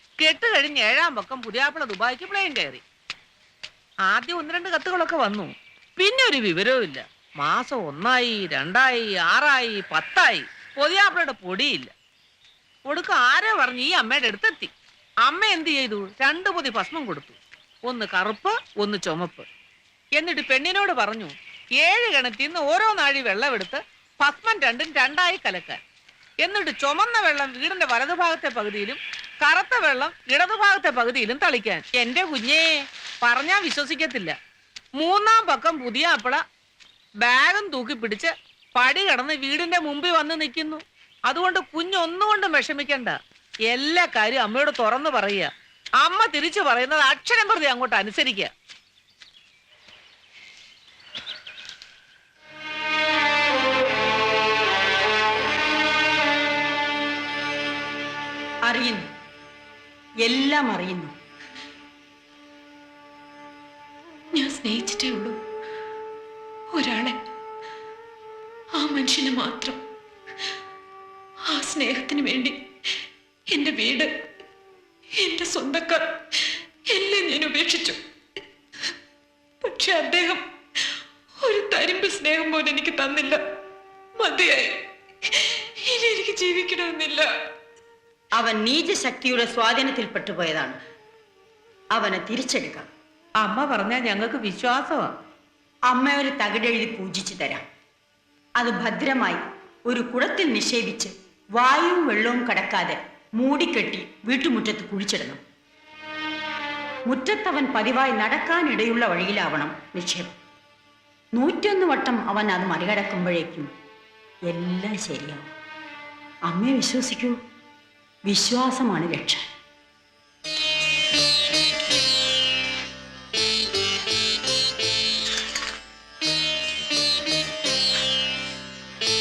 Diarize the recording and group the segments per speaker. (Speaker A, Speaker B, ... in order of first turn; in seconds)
Speaker A: 0.2-2.8, 4.1-11.9, 12.9-14.7, 15.3-19.5, 20.2-25.8, 26.4-34.4, 35.0-36.4, 37.2-43.2, 43.7-45.5, 46.0-48.5, 93.4-95.1
Speaker B: 58.6-59.1, 60.2-61.1, 88.3-90.8, 91.9-92.9, 95.9-97.6, 98.6-105.4, 107.1-110.3, 111.3-113.7, 114.5-115.5, 116.5-117.4, 118.3-119.5
Speaker C: 64.3-65.4, 66.7-67.2, 68.8-69.8, 71.5-72.6, 73.5-74.1, 75.2-76.2, 76.9-78.0, 79.7-80.4, 81.4-83.4, 84.2-84.8, 85.4-87.3